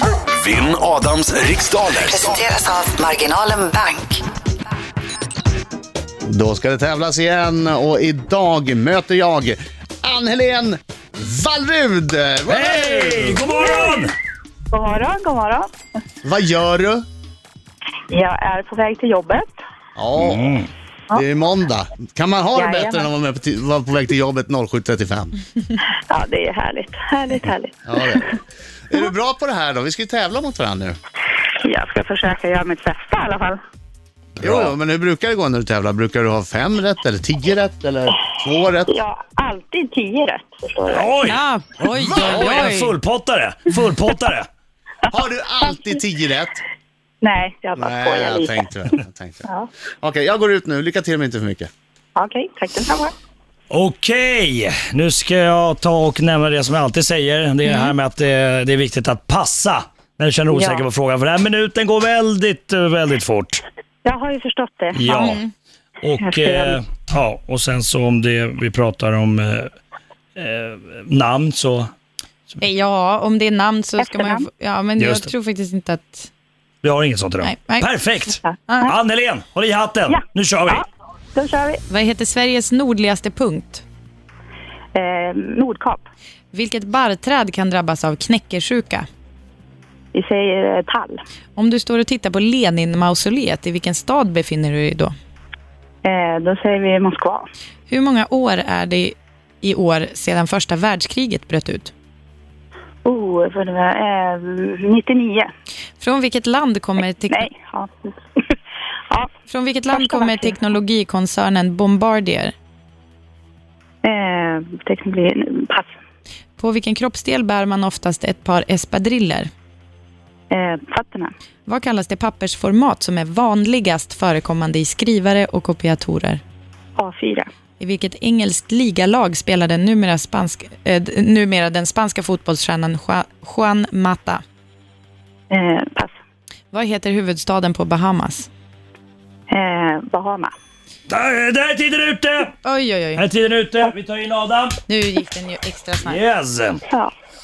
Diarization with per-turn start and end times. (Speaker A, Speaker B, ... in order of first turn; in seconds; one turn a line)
Speaker A: 0.4-2.4
Speaker B: 2.0-4.2
Speaker C: 6.3-13.4
Speaker D: 12.5-14.1
Speaker E: 13.6-14.1
Speaker E: 14.7-15.7
Speaker C: 16.2-17.1
Speaker E: 18.1-19.5
Speaker C: 20.0-20.5
Speaker D: 20.2-20.7
Speaker C: 21.1-25.3
Speaker E: 22.6-23.1
Speaker E: 26.1-28.2
Speaker C: 27.9-28.3
Speaker C: 28.9-31.0
Speaker E: 31.6-33.6
Speaker D: 34.4-34.7
Speaker C: 34.4-38.9
Speaker E: 38.9-41.1
Speaker D: 40.9-44.5
Speaker F: 41.2-43.0
Speaker C: 41.9-42.7
Speaker C: 45.1-46.6
Speaker E: 47.2-48.6
Speaker C: 47.8-49.5
Speaker C: 50.0-51.7
Speaker E: 52.2-53.1
Speaker D: 53.7-63.6
Speaker E: 60.5-60.8
Speaker E: 64.0-65.0
Speaker D: 64.9-65.4
Speaker F: 65.1-65.5
Speaker D: 66.0-69.7
Speaker E: 66.2-66.8
Speaker D: 70.4-71.9
Speaker F: 72.6-76.3
Speaker E: 74.0-74.5
Speaker D: 75.0-75.3
Speaker D: 76.8-80.8
Speaker F: 77.4-77.9
Speaker E: 78.4-79.0
Speaker E: 80.1-80.8
Speaker E: 81.3-81.8
Speaker F: 81.9-83.8
Speaker E: 85.0-86.0
Speaker F: 86.5-89.1
Speaker E: 90.1-91.2
Speaker F: 91.6-95.1
Speaker E: 96.0-97.5
Speaker F: 97.9-101.9
Speaker E: 103.0-105.5
Speaker F: 106.0-107.5
Speaker E: 107.3-108.5
Speaker F: 109.5-112.5
Speaker E: 109.9-110.5
Speaker E: 114.0-115.9
Speaker F: 116.6-119.5
Speaker E: 120.5-121.3
Speaker F: 121.7-126.4
Speaker E: 127.0-127.5
Speaker F: 127.8-134.4
Speaker E: 135.5-136.1
Speaker F: 136.7-138.5
Speaker E: 139.5-140.5
Speaker D: 141.1-142.6
Speaker F: 142.6-143.2
Speaker D: 143.2-144.8
Speaker F: 144.9-146.2
Speaker D: 146.1-146.8